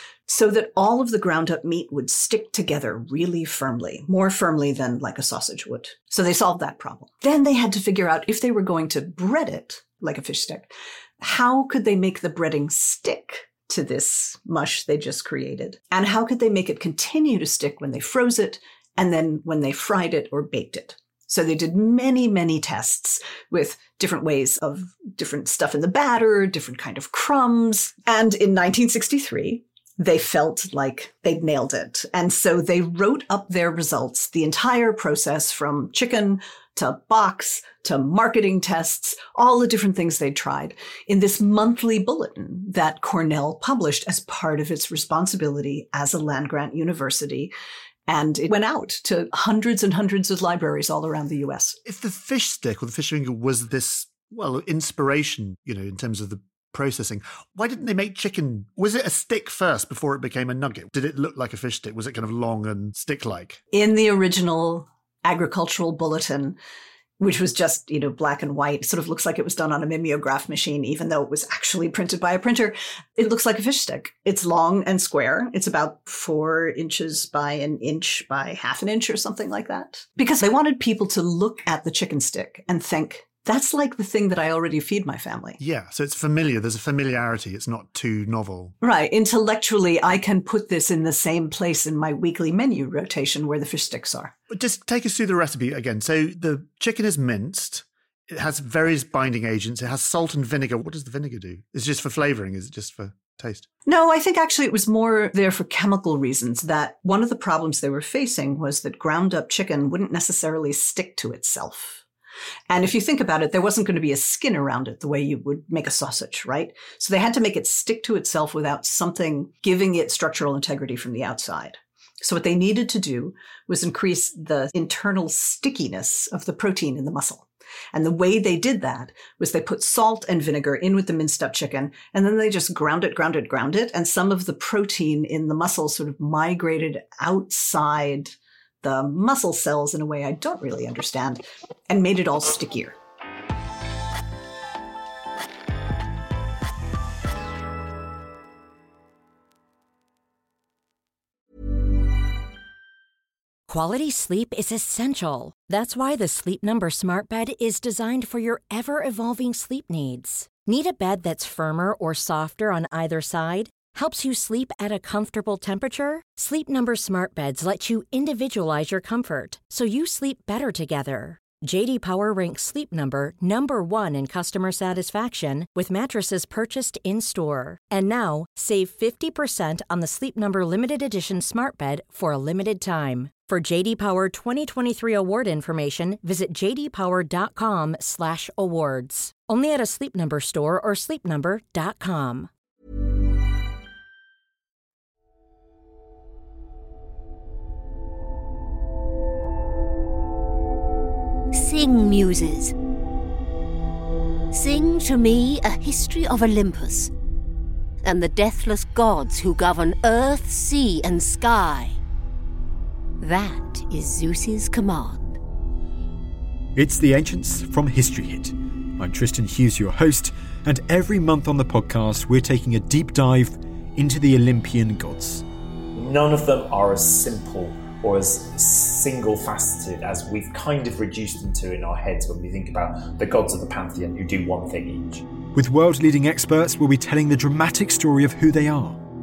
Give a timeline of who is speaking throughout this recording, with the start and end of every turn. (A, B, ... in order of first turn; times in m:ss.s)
0:00.3-0:47.5 A
0:48.1-0:51.8 A
0:51.8-1:03.6 B
1:03.7-1:06.6 A
1:07.2-1:25.6 A
1:25.6-1:28.7 B
1:28.8-1:34.3 A
1:34.5-1:43.7 B
1:43.8-1:52.0 A
1:52.7-2:22.9 A
2:33.7-3:12.5 C
3:21.5-3:22.7 D
3:24.5-3:27.1 D
3:28.0-3:32.0 D
3:33.2-3:35.4 D
3:36.7-3:45.4 E
3:45.9-3:55.3 F
3:55.5-3:59.0 E